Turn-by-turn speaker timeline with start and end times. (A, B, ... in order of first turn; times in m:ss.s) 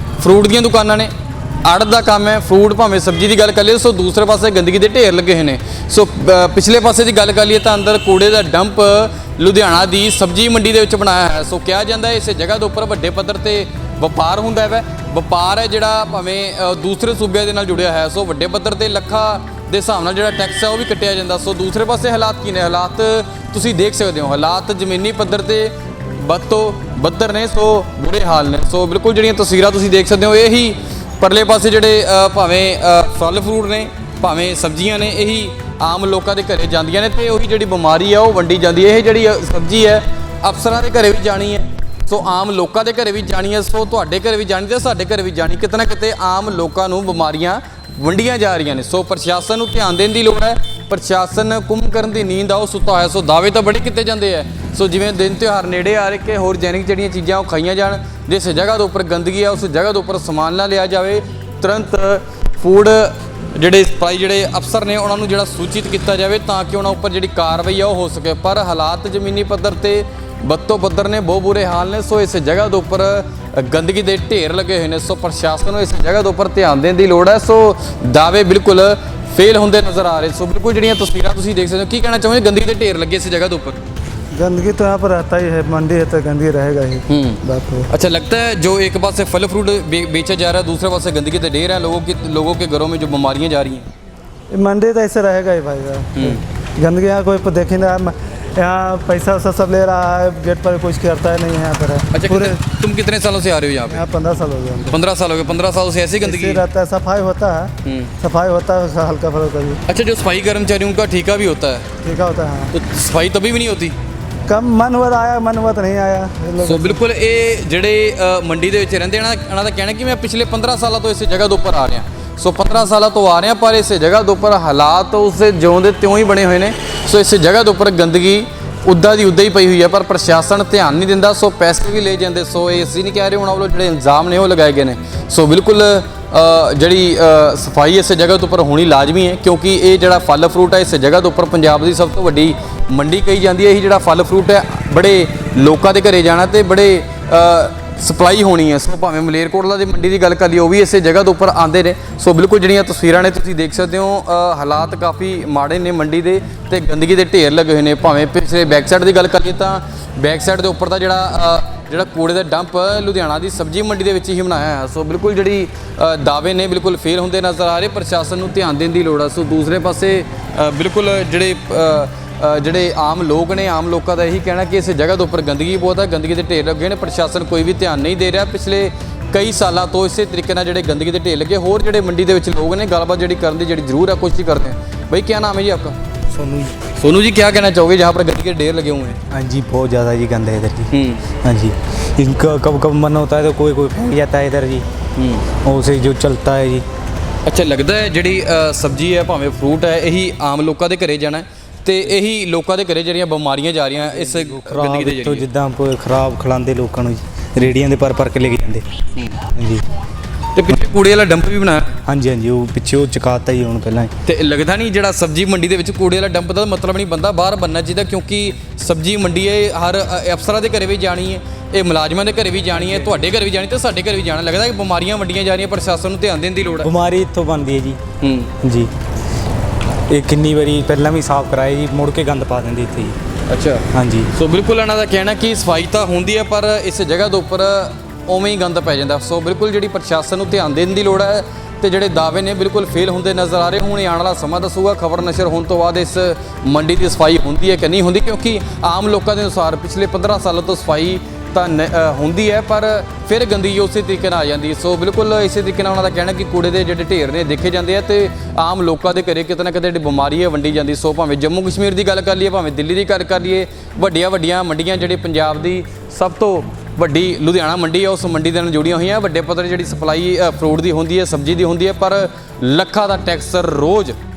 0:00.2-0:01.1 A
0:01.6-1:23.8 A
1:24.3-1:27.9 B
1:27.1-1:33.9 A
1:34.5-1:42.6 B
1:36.2-1:36.4 A
1:42.1-1:44.0 A
1:43.9-1:45.0 B
1:44.9-1:46.6 A
1:46.2-1:49.8 B
1:47.8-1:48.1 A
1:49.9-1:51.9 A
1:52.0-1:52.7 B
1:52.7-1:54.0 A
1:54.5-1:57.0 B
1:56.6-3:06.0 A
3:06.3-3:06.8 C
3:07.0-3:09.2 A
3:09.3-3:10.9 C
3:10.9-3:11.3 A
3:11.4-3:14.9 C
3:15.2-3:15.4 A
3:15.5-3:16.9 C
3:17.4-3:25.4 A
3:24.0-3:28.9 C
3:29.2-3:29.4 A
3:29.4-3:29.9 C
3:30.6-3:32.0 A
3:32.0-3:34.1 C
3:34.2-3:46.9 A
3:46.8-3:48.0 C
3:48.2-3:48.5 A
3:48.6-3:48.9 C
3:50.1-3:53.2 C
3:53.5-4:34.2 A
3:53.9-3:54.3 C